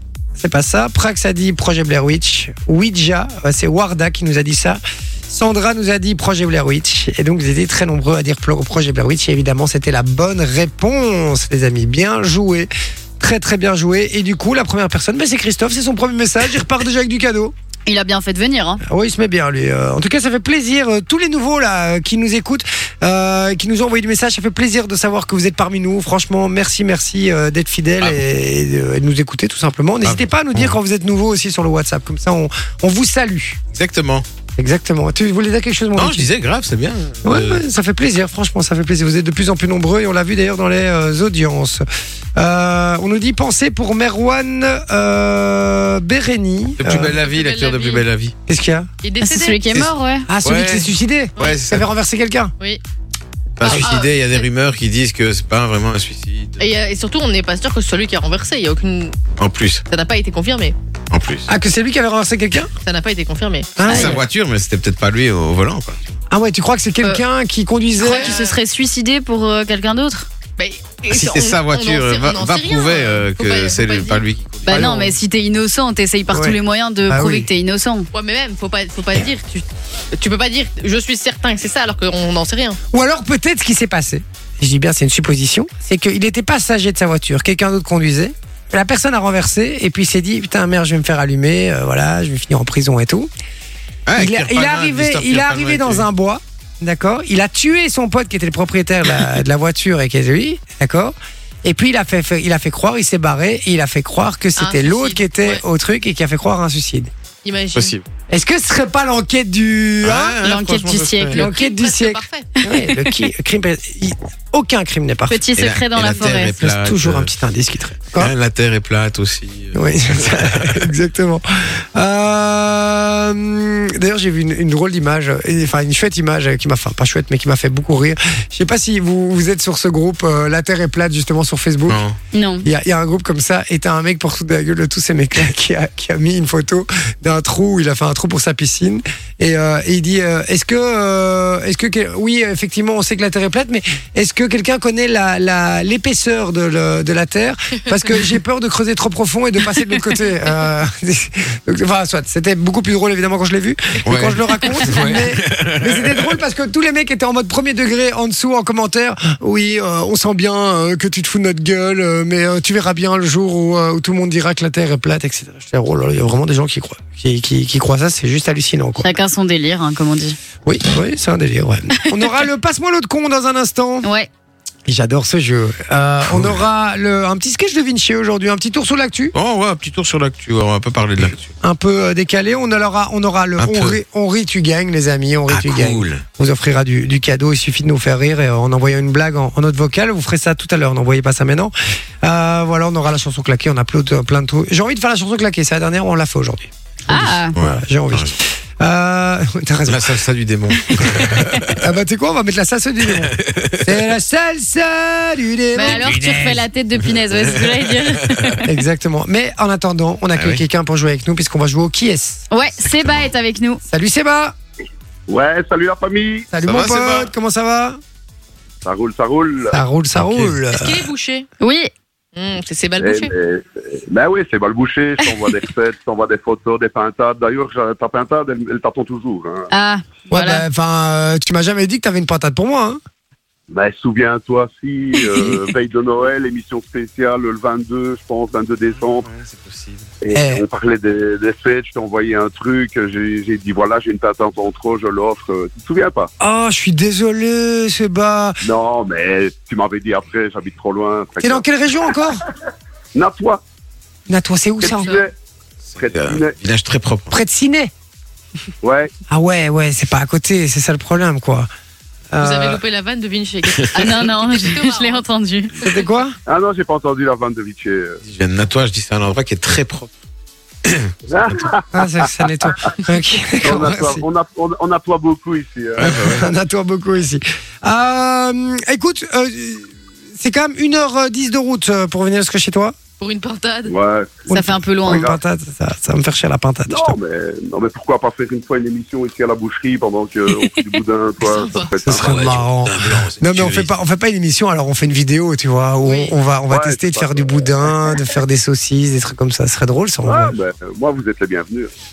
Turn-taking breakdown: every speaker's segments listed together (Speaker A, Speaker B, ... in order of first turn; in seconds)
Speaker A: 0.3-17.5, 18.9-33.6, 34.6-36.3, 37.2-41.8, 42.4-47.2, 48.5-48.9, 50.3-52.5, 53.6-53.9, 61.5-62.7, 63.8-64.2, 66.3-68.4, 74.7-75.1, 76.3-77.5, 82.9-93.3, 94.2-107.1, 108.3-110.4, 111.3-115.4, 116.4-118.3, 119.7-132.0, 132.6-169.1, 170.6-174.1, 174.8-179.3, 181.6-200.2, 201.8-206.2, 208.6-212.5, 213.9-214.6, 216.5-218.0, 219.7-221.1, 230.3-233.0, 235.3-235.6, 240.3-240.6, 246.4-248.6, 251.4-252.4, 254.3-255.2, 257.3-257.9, 259.3-261.7, 262.3-262.8, 265.8-266.4, 271.9-274.2, 276.0-282.9, 284.5-287.2, 292.0-300.6
Speaker B: 17.9-18.8, 49.2-50.3, 68.0-70.3, 74.6-78.1, 110.4-111.4, 112.6-112.9, 115.3-116.6, 132.3-132.7, 169.0-170.4, 174.0-174.3, 197.1-197.6, 205.7-208.6, 212.5-213.8, 221.6-221.9, 229.7-230.6, 263.9-265.7, 284.5-285.3
Speaker C: 30.0-30.8, 33.7-34.2, 36.0-37.6, 46.8-48.3, 50.4-51.9, 53.6-56.7, 59.4-59.8, 61.1-61.5, 63.9-66.0, 71.1-75.1, 94.1-96.1, 107.7-108.0, 110.0-111.4, 115.6-117.3, 118.1-120.9, 131.9-132.2, 154.1-156.3, 176.3-176.6, 179.3-181.5, 183.6-184.0, 185.5-186.2, 197.6-198.3, 199.9-201.8, 203.2-204.0, 205.8-208.6, 210.4-210.6, 212.8-213.2, 216.6-217.3, 220.2-220.6, 238.9-240.1, 255.9-257.3, 268.2-270.1, 270.8-271.1, 276.0-276.5, 292.1-293.9
Speaker D: 47.2-48.0, 49.0-49.6, 53.6-54.5, 56.6-59.2, 59.9-60.8, 62.8-64.0, 68.0-68.6, 70.6-74.2, 78.1-82.8, 104.6-105.6, 107.4-107.9, 111.3-112.5, 220.7-221.5, 222.3-223.3, 254.8-255.2, 262.4-265.2, 283.2-283.9, 291.4-292.0
Speaker E: 215.3-216.5, 218.8-219.8, 223.0-229.7, 233.7-239.3, 240.2-246.3, 248.6-251.6, 253.1-253.6, 254.8-255.3, 256.0-256.5, 258.8-259.1, 266.5-268.2, 271.3-272.0, 273.6-276.2, 283.9-284.5, 285.1-285.3, 286.9-292.6, 296.7-298.1, 300.2-301.9